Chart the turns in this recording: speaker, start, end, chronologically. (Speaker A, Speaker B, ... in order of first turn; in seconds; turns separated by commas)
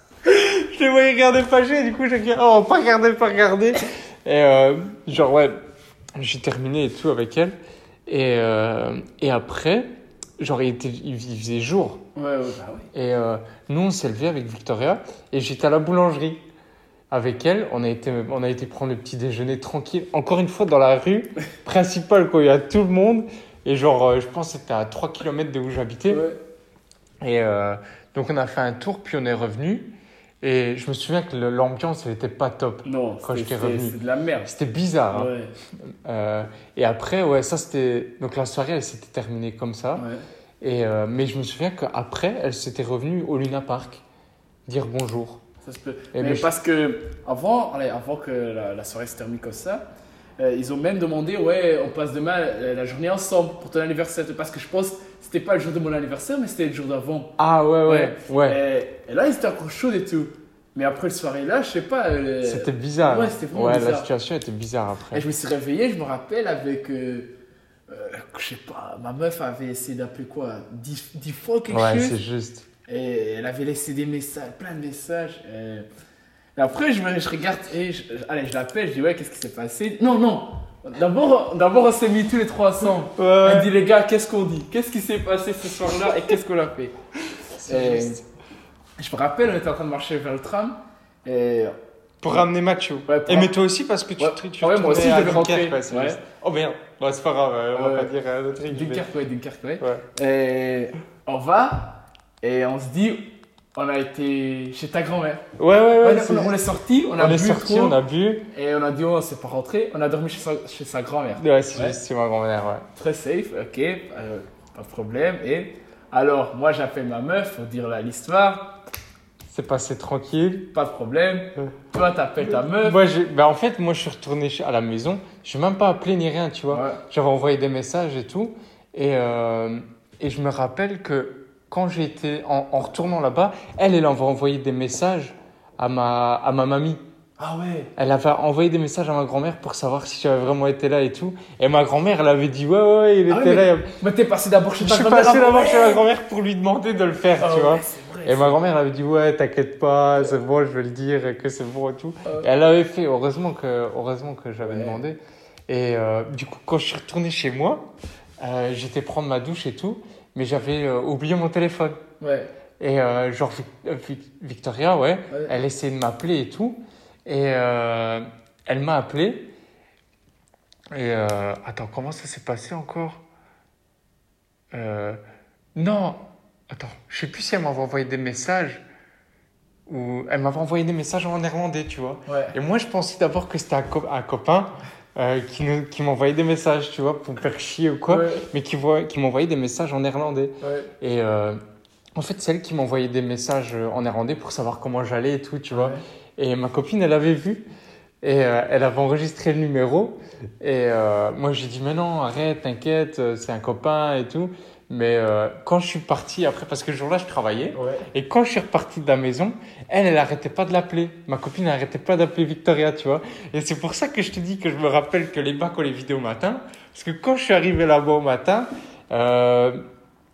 Speaker A: 0.2-5.5, Speaker A: 6.2-7.5, Speaker A: 8.1-12.0, Speaker B: 12.2-12.9, Speaker A: 12.9-16.4, Speaker A: 17.1-26.2, Speaker B: 26.1-26.4, Speaker A: 27.2-29.9, Speaker A: 30.4-35.3, Speaker B: 32.8-34.5, Speaker B: 35.1-35.5, Speaker A: 35.9-40.0, Speaker B: 40.0-40.2, Speaker A: 40.6-44.0, Speaker A: 44.7-45.4, Speaker B: 45.6-49.8, Speaker A: 46.1-46.5, Speaker B: 50.4-57.3, Speaker A: 57.4-58.6, Speaker B: 57.9-64.1, Speaker A: 62.4-65.2, Speaker B: 65.1-67.3, Speaker B: 67.9-72.2, Speaker A: 71.7-72.7, Speaker B: 72.9-75.8, Speaker B: 76.5-86.9, Speaker A: 83.1-83.7, Speaker A: 87.6-88.2, Speaker B: 87.6-88.2, Speaker B: 89.0-91.7, Speaker A: 92.2-99.0, Speaker B: 93.1-93.5, Speaker B: 94.2-96.2, Speaker B: 97.7-98.1, Speaker B: 98.7-103.2, Speaker B: 103.8-105.4, Speaker A: 105.6-106.6, Speaker B: 106.0-108.0, Speaker A: 107.2-108.4, Speaker B: 108.5-112.0, Speaker A: 111.4-112.8, Speaker B: 113.0-118.8, Speaker A: 119.5-120.7, Speaker B: 120.7-123.0, Speaker A: 122.4-137.0, Speaker B: 126.7-127.0, Speaker B: 137.4-137.9, Speaker A: 138.0-143.9, Speaker B: 143.3-146.0, Speaker A: 144.8-157.9, Speaker B: 147.4-148.6, Speaker B: 154.6-155.0, Speaker A: 158.4-162.0, Speaker B: 162.2-162.5, Speaker A: 162.8-169.5, Speaker B: 165.3-165.6, Speaker A: 170.9-173.2, Speaker A: 174.7-175.2, Speaker A: 175.7-178.8, Speaker A: 179.9-191.6, Speaker B: 182.3-182.6, Speaker B: 188.1-188.5, Speaker B: 190.6-190.9, Speaker A: 192.2-197.6, Speaker B: 195.7-196.0, Speaker A: 198.2-219.8, Speaker B: 207.7-208.1